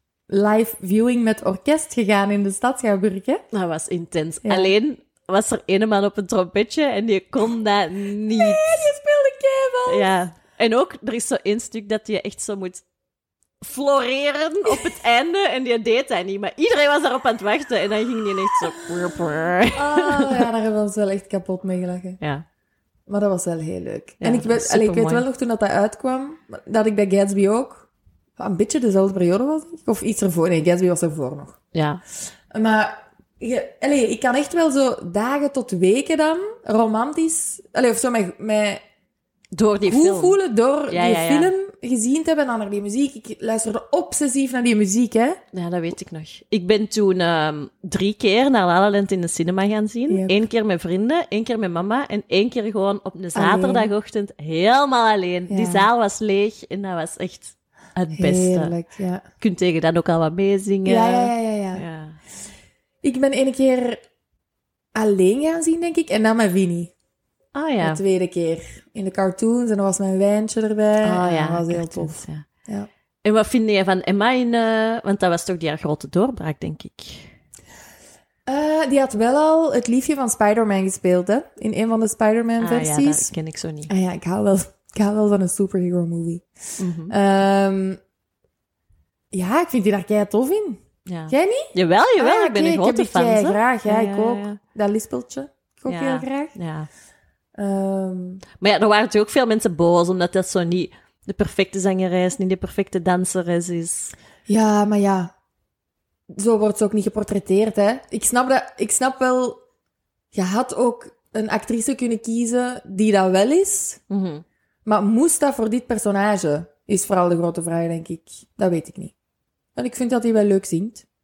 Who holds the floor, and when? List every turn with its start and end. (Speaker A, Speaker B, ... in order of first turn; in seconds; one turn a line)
Speaker A: 0.3-3.4
Speaker B: 3.5-8.8
Speaker A: 4.4-4.7
Speaker A: 8.3-10.1
Speaker B: 9.9-12.8
Speaker B: 13.6-20.5
Speaker A: 19.7-22.2
Speaker A: 23.1-31.6
Speaker B: 24.2-25.2
Speaker B: 31.7-32.0
Speaker A: 32.5-38.8
Speaker B: 39.5-40.4
Speaker A: 39.8-45.4
Speaker B: 40.9-41.5
Speaker B: 45.5-58.8
Speaker A: 53.3-53.9
Speaker A: 55.5-55.9
Speaker A: 58.1-59.2
Speaker B: 59.4-62.2
Speaker A: 60.8-61.8
Speaker A: 63.0-64.0
Speaker A: 64.9-66.9
Speaker B: 67.5-68.0
Speaker A: 67.8-72.9
Speaker B: 71.0-72.5
Speaker B: 73.2-77.3
Speaker A: 78.5-83.3
Speaker B: 82.6-83.9
Speaker A: 83.9-86.5
Speaker B: 86.8-87.1
Speaker A: 87.1-88.0
Speaker A: 89.3-96.5
Speaker B: 91.0-94.6
Speaker B: 95.9-96.9
Speaker A: 97.5-98.4
Speaker B: 98.6-104.1
Speaker A: 104.5-105.3
Speaker A: 106.3-109.6
Speaker A: 110.3-114.0
Speaker B: 114.1-114.4
Speaker A: 114.8-119.1
Speaker A: 119.8-121.0